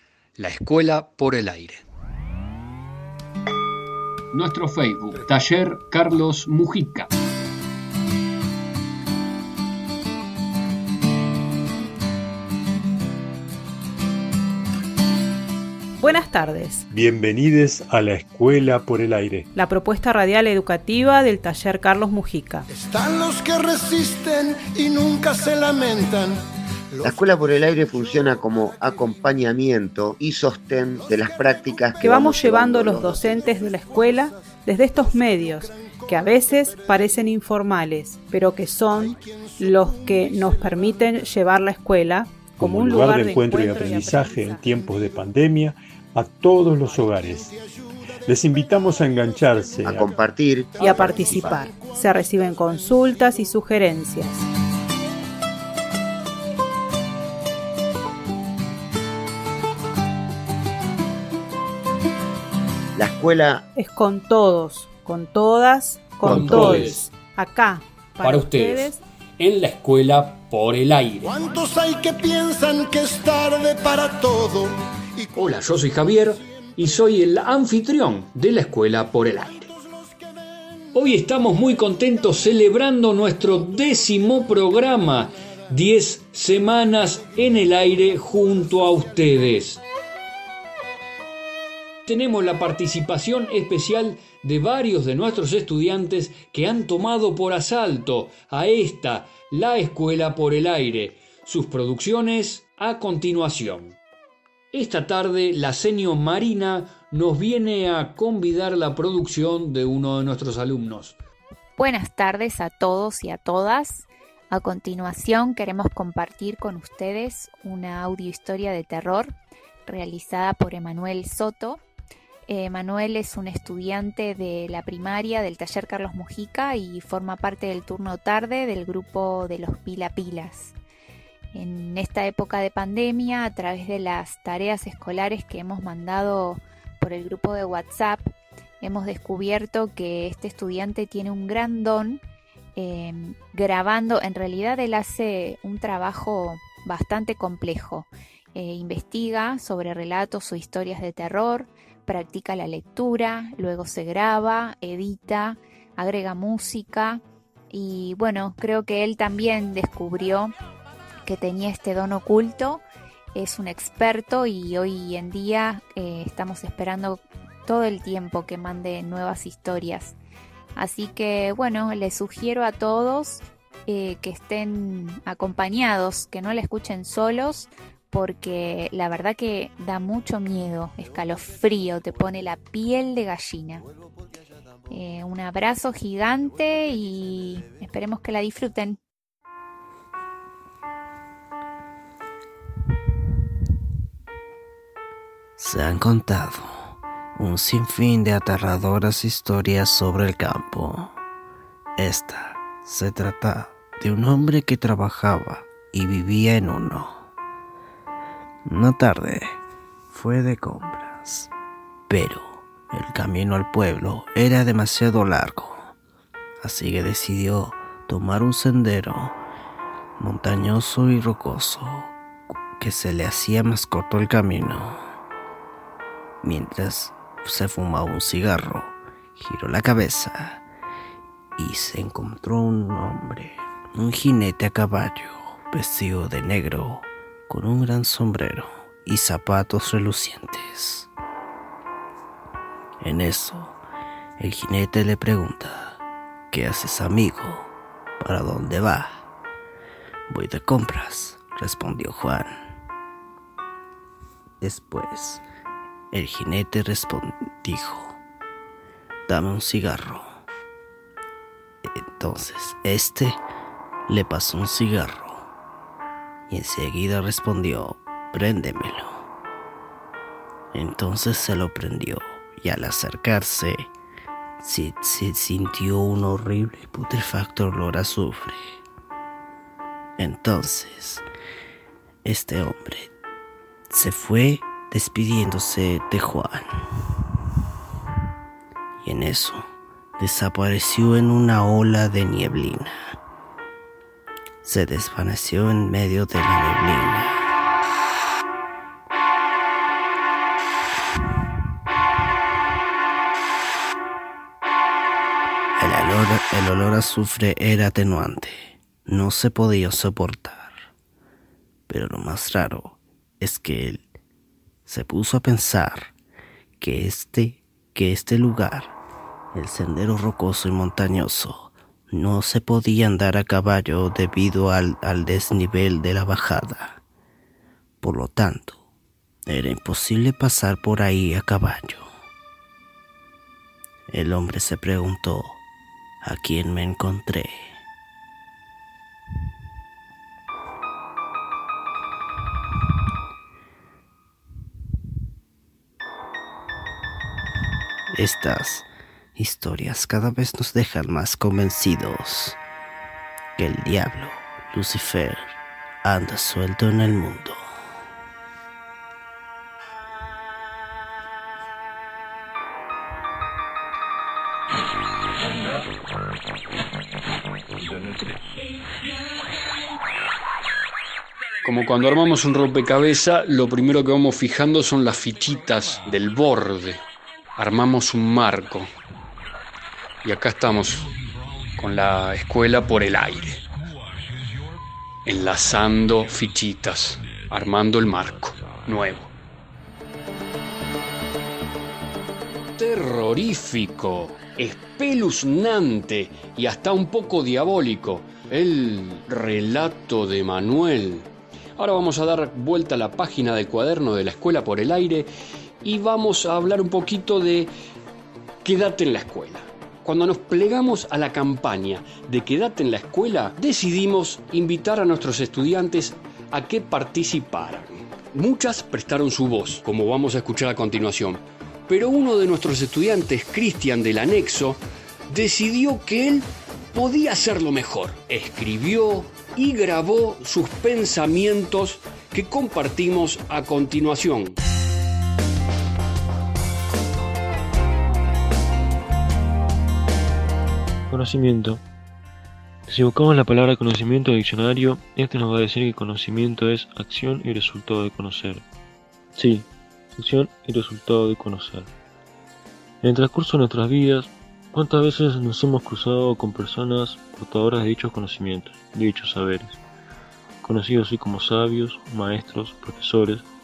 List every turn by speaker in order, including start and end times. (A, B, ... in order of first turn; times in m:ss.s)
0:00.4-0:01.8 A
0:04.3-0:07.1 A
0:16.0-0:16.8 B
0:16.9-0:19.5 C
0:19.5-0:22.7 B
0:22.7-0:26.4 D
0:26.9-0:27.2 D
0:27.0-0:33.3 E
0:31.0-0:37.2 D
0:32.0-0:44.6 B
0:38.9-0:41.2 D
0:42.5-0:47.5 C
0:47.0-0:47.8 D
0:48.2-0:50.1 C
0:49.8-0:51.6 E
0:50.8-0:53.2 D
0:50.8-0:54.4 B
1:03.0-1:03.6 E
1:03.7-1:09.0 B
1:06.2-1:07.0 A
1:08.2-1:11.2 A
1:11.2-1:15.3 D
1:15.3-1:19.7 A
1:20.9-1:29.8 A
1:32.0-1:44.0 A
1:44.7-1:51.2 A
1:51.8-1:59.3 F
1:59.8-2:01.8 F
2:02.5-2:10.7 F
2:11.5-2:22.2 F
2:22.8-2:40.5 F
2:41.2-2:42.8 F
2:43.3-2:50.1 F
2:50.8-3:03.8 F
3:04.9-3:09.0 F
3:15.6-3:21.1 G
3:22.0-3:27.2 G
3:28.6-3:29.6 G
3:30.1-3:31.5 G
3:32.1-3:35.9 G
3:36.6-3:39.4 G
3:40.2-3:42.1 G
3:42.8-3:45.0 G
3:46.4-3:50.6 G
3:51.6-4:01.1 G
4:03.0-4:03.8 G
4:04.4-4:06.0 G
4:06.5-4:09.2 G
4:10.3-4:12.6 G
4:14.6-4:15.4 G
4:16.1-4:18.2 G
4:19.3-4:20.3 G
4:21.8-4:23.4 G
4:24.1-4:25.5 G
4:26.5-4:29.2 G
4:30.7-4:33.9 G
4:34.6-4:38.6 G
4:40.2-4:41.2 G
4:42.2-4:43.1 G
4:43.9-4:46.8 G
4:49.0-4:49.7 G
4:50.2-4:53.1 G
4:54.6-4:57.5 G
5:05.8-5:10.9 G
5:11.9-5:14.0 G
5:14.9-5:16.1 G
5:16.8-5:18.9 G
5:19.5-5:27.0 G
5:28.0-5:28.8 G
5:29.4-5:32.1 G
5:34.1-5:35.6 G
5:36.2-5:37.8 G
5:48.1-5:52.6 G
5:53.6-5:57.6 G
6:11.6-6:17.0 A
6:17.6-6:18.9 A
6:20.2-6:21.1 A
6:21.8-6:23.6 A
6:25.2-6:29.3 A
6:32.8-6:45.3 A
6:45.8-6:47.7 A
6:48.6-7:14.6 A
7:21.1-7:21.8 H
7:22.9-7:28.6 H
7:29.4-7:29.6 H
7:30.2-7:31.9 H
7:33.0-7:39.8 H
7:40.6-7:43.4 H